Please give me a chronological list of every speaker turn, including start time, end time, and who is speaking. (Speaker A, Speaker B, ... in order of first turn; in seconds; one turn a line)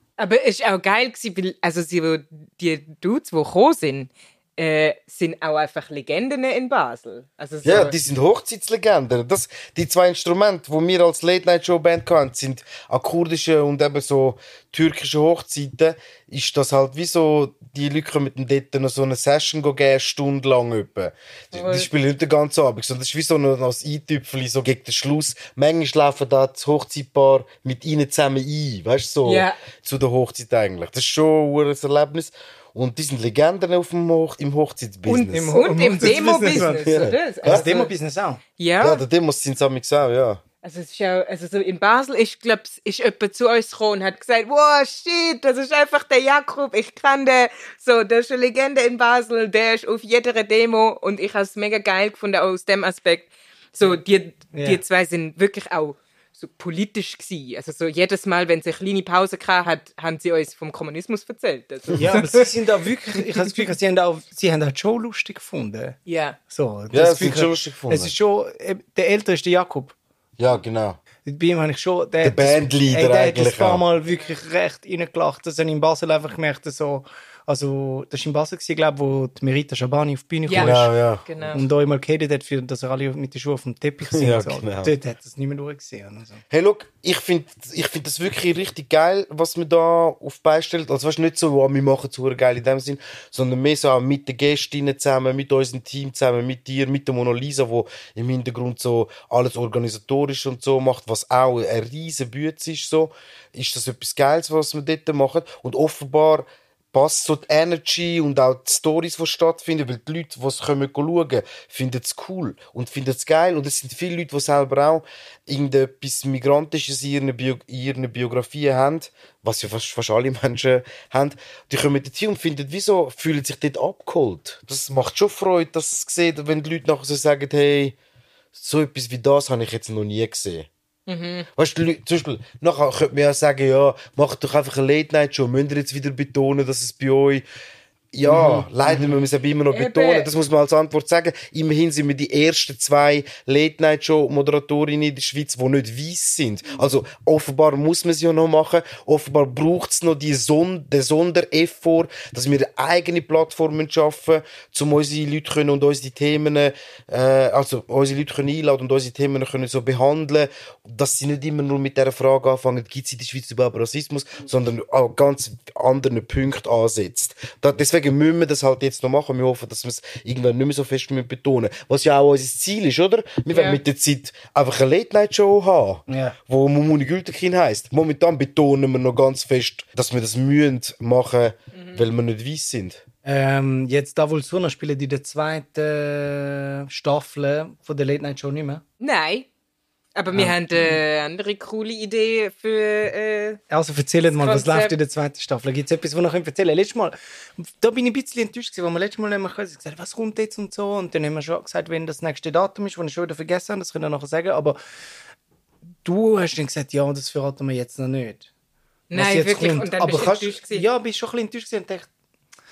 Speaker A: 0.2-8.0
Speaker B: 7.6-37.7
Speaker A: 21.5-21.9
Speaker A: 29.2-29.6
Speaker A: 35.0-37.9
Speaker C: 35.3-36.9
Speaker C: 37.4-38.4
Speaker A: 38.6-39.0
Speaker B: 38.8-40.4
Speaker A: 40.6-62.5
Speaker C: 54.5-54.8
Speaker C: 62.0-66.0
Speaker A: 66.0-66.4
Speaker C: 66.5-70.0
Speaker B: 66.9-68.1
Speaker B: 70.4-71.0
Speaker C: 71.2-80.9
Speaker B: 72.2-73.8
Speaker A: 80.5-81.7
Speaker B: 80.5-81.2
Speaker C: 81.5-86.4
Speaker B: 84.1-84.9
Speaker B: 86.5-128.0
Speaker B: 128.5-130.7
Speaker A: 131.1-131.5
Speaker B: 131.6-137.4
Speaker B: 138.1-183.0
Speaker C: 138.2-139.1
Speaker A: 139.7-140.3
Speaker A: 173.5-173.8
Speaker C: 176.1-176.4
Speaker A: 181.7-182.0
Speaker C: 183.2-188.8
Speaker A: 189.0-189.5
Speaker A: 190.2-193.6
Speaker C: 190.3-191.0
Speaker C: 193.7-204.8
Speaker A: 194.3-195.0
Speaker C: 206.0-208.5
Speaker A: 209.1-210.9
Speaker C: 209.1-212.1